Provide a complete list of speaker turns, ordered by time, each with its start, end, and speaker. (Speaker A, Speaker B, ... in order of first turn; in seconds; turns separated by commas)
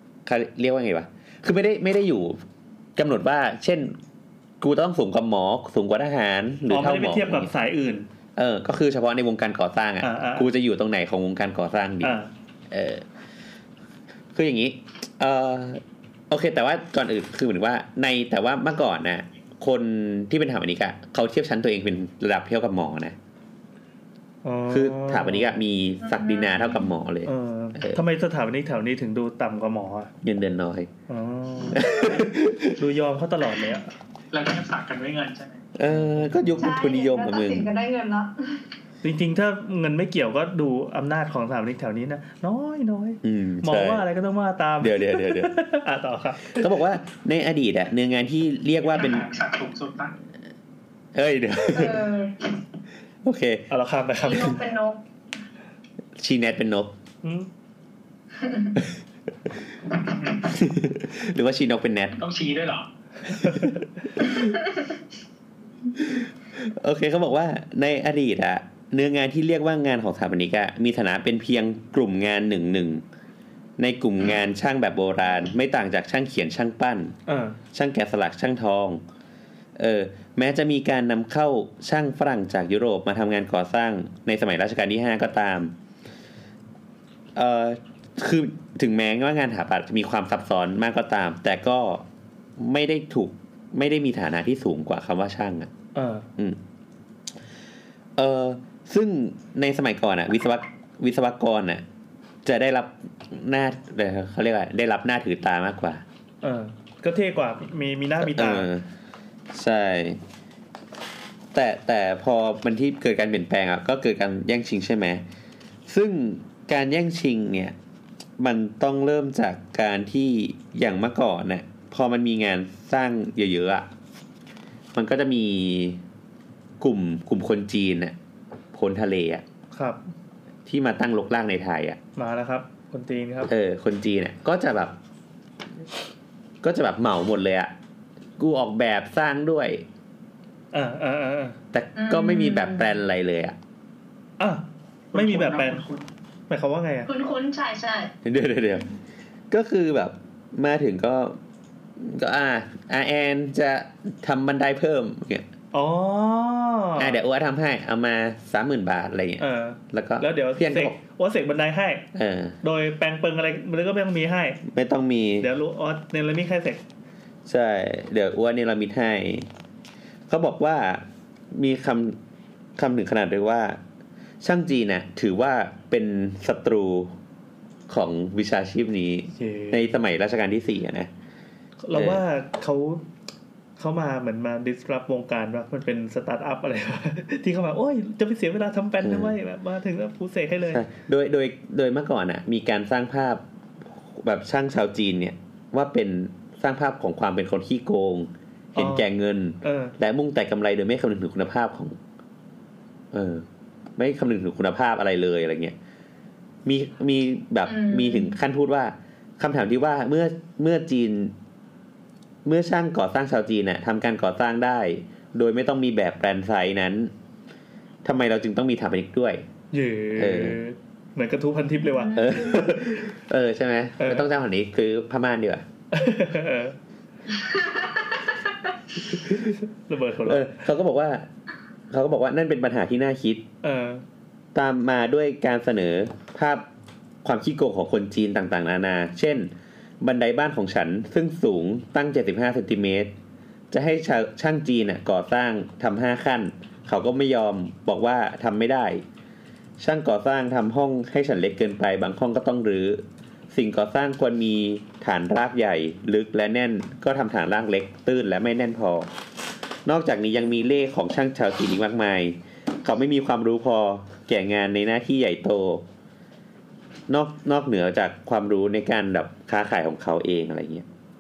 Speaker A: 0.3-2.4, Speaker A: 3.0-4.0, Speaker A: 4.6-7.5, Speaker B: 6.7-8.1, Speaker A: 8.4-12.2, Speaker B: 10.0-10.5, Speaker B: 12.0-12.3, Speaker A: 12.7-13.1, Speaker A: 14.3-23.2, Speaker B: 24.4-25.6, Speaker A: 24.7-28.0, Speaker C: 26.0-26.8, Speaker B: 27.3-30.1, Speaker A: 30.2-30.9, Speaker B: 31.1-32.1, Speaker A: 31.7-32.8, Speaker B: 32.8-33.9, Speaker D: 34.3-35.6, Speaker A: 35.8-37.7, Speaker B: 35.9-36.6, Speaker C: 36.6-38.6, Speaker B: 39.0-46.7, Speaker A: 43.2-44.1, Speaker A: 44.8-45.5, Speaker A: 46.5-49.2, Speaker D: 48.8-50.1, Speaker A: 51.1-52.1, Speaker C: 51.7-52.3, Speaker A: 53.2-53.7, Speaker B: 53.7-54.6, Speaker C: 54.2-55.0, Speaker A: 56.2-56.9, Speaker B: 57.2-57.5, Speaker A: 60.4-62.2, Speaker D: 62.2-62.9, Speaker B: 63.3-63.8, Speaker A: 66.0-73.0, Speaker A: 73.8-77.2, Speaker B: 77.3-77.6, Speaker A: 77.7-79.0, Speaker A: 79.8-85.8, Speaker A: 87.3-92.1, Speaker A: 92.6-95.7, Speaker B: 96.0-96.3, Speaker A: 98.2-101.8, Speaker A: 102.5-106.0, Speaker B: 106.4-108.7, Speaker A: 108.2-108.9, Speaker A: 109.5-110.2, Speaker A: 111.5-115.2, Speaker A: 115.9-117.8, Speaker A: 118.4-123.9, Speaker A: 125.0-126.0, Speaker A: 126.8-128.2, Speaker A: 128.7-129.4, Speaker B: 129.7-130.0, Speaker A: 130.7-132.0, Speaker B: 132.2-133.5, Speaker A: 133.5-134.9, Speaker A: 136.6-137.7, Speaker A: 138.4-139.8, Speaker B: 140.7-141.6, Speaker A: 141.7-143.6, Speaker C: 142.0-142.9, Speaker D: 145.1-146.1, Speaker B: 145.1-145.8, Speaker B: 146.5-147.1, Speaker C: 147.1-148.1, Speaker A: 148.2-148.9, Speaker A: 149.5-151.4, Speaker A: 152.0-155.5, Speaker B: 155.7-157.2, Speaker A: 157.0-161.0, Speaker B: 159.4-162.1, Speaker A: 162.1-162.6, Speaker B: 162.6-164.6, Speaker A: 164.7-165.5, Speaker B: 165.4-166.8, Speaker A: 167.5-169.5, Speaker A: 170.3-172.2, Speaker A: 172.8-173.8, Speaker A: 174.4-177.2, Speaker A: 177.9-181.1, Speaker B: 179.4-179.8, Speaker B: 181.8-183.1, Speaker A: 181.9-182.2, Speaker B: 183.8-190.8, Speaker A: 189.0-189.3, Speaker A: 190.7-193.4, Speaker A: 194.0-202.0, Speaker B: 198.8-199.1, Speaker B: 199.6-199.9, Speaker A: 203.1-203.5, Speaker A: 204.0-205.8, Speaker A: 206.7-211.3, Speaker C: 207.7-208.3, Speaker A: 212.4-217.1, Speaker A: 218.0-219.4, Speaker B: 219.7-222.7, Speaker A: 220.2-220.6, Speaker C: 222.0-222.4, Speaker A: 222.1-225.7, Speaker B: 224.0-224.3, Speaker B: 225.9-226.8, Speaker C: 227.3-228.2, Speaker A: 229.1-229.5, Speaker B: 229.6-230.6, Speaker A: 230.2-231.3, Speaker A: 231.9-233.4, Speaker B: 233.6-234.0, Speaker A: 234.5-236.7, Speaker A: 237.2-243.1, Speaker A: 243.7-249.1, Speaker A: 249.8-259.1, Speaker A: 259.9-265.9, Speaker A: 267.1-270.9